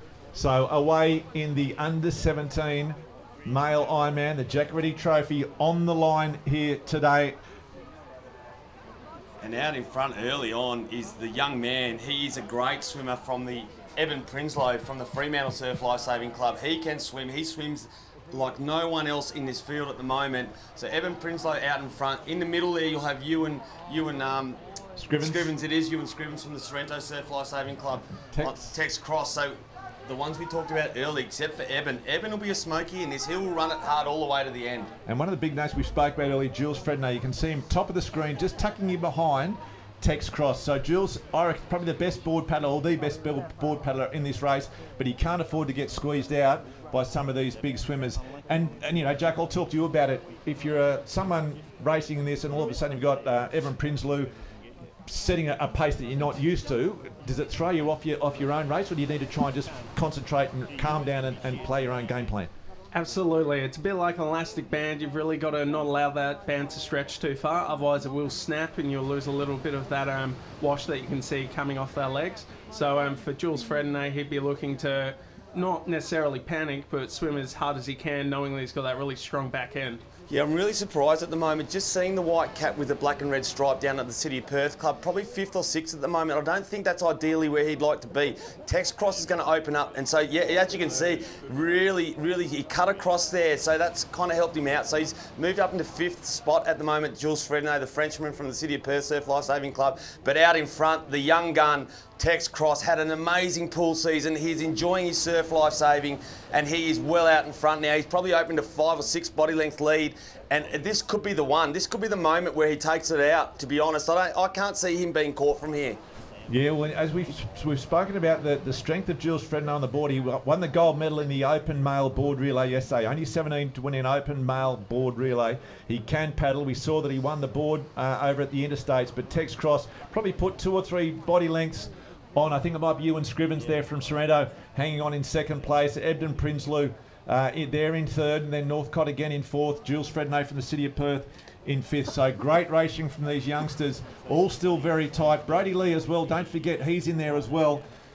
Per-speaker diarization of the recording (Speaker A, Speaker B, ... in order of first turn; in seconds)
Speaker A: 0.3-7.4, 25.0-25.5, 28.3-28.6, 35.0-54.3, 55.1-62.5, 116.5-147.8
Speaker B: 9.4-24.6, 25.2-34.9, 80.3-116.0
Speaker C: 62.9-80.0